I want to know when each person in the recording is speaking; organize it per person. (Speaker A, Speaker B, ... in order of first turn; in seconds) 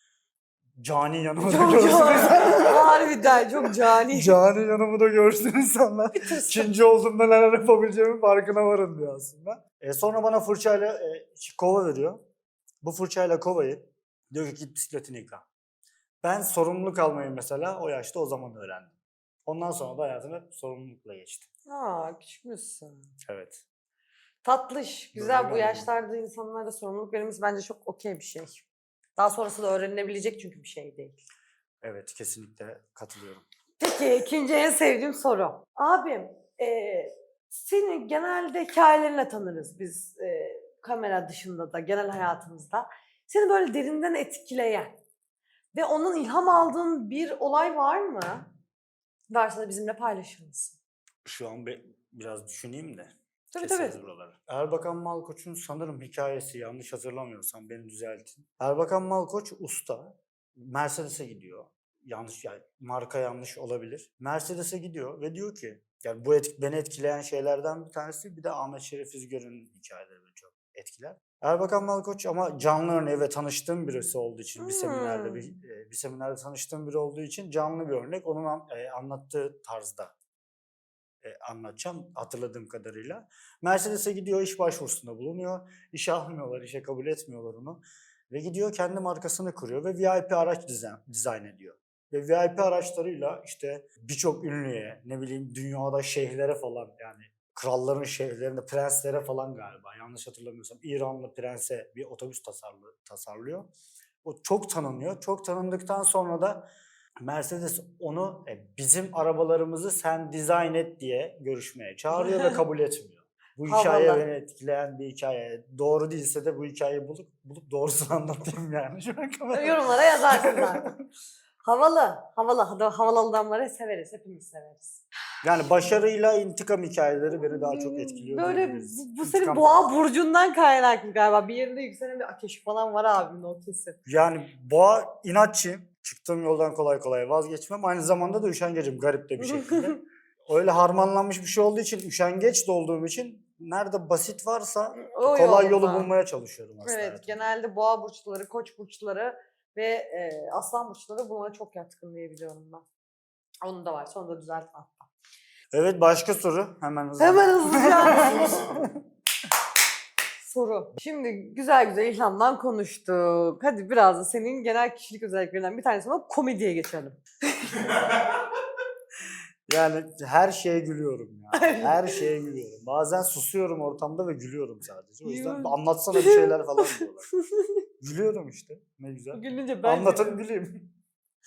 Speaker A: 0.8-12.2, 12.8-15.4, 16.2-18.9, 19.5-21.5, 23.2-23.6, 25.1-25.9, 31.8-33.5, 51.2-80.1, 81.2-103.7, 104.2-106.7, 107.2-120.9, 125.4-130.0, 134.1-147.4, 155.7-159.0, 169.7-177.3, 178.0-180.9
Speaker B: 1.4-4.3, 6.2-6.7, 21.7-23.1, 24.4-28.6, 29.2-31.2, 33.8-45.0, 45.7-48.5, 49.3-50.8, 53.5-54.0, 74.6-75.5, 112.1-112.6, 113.7-114.2, 119.5-121.0, 121.6-125.0, 127.3-134.0, 139.4-140.0, 145.0-146.1, 146.8-152.9, 153.6-155.1, 157.2-158.7, 160.4-168.1, 171.5-172.3, 175.2-177.7, 179.3-180.4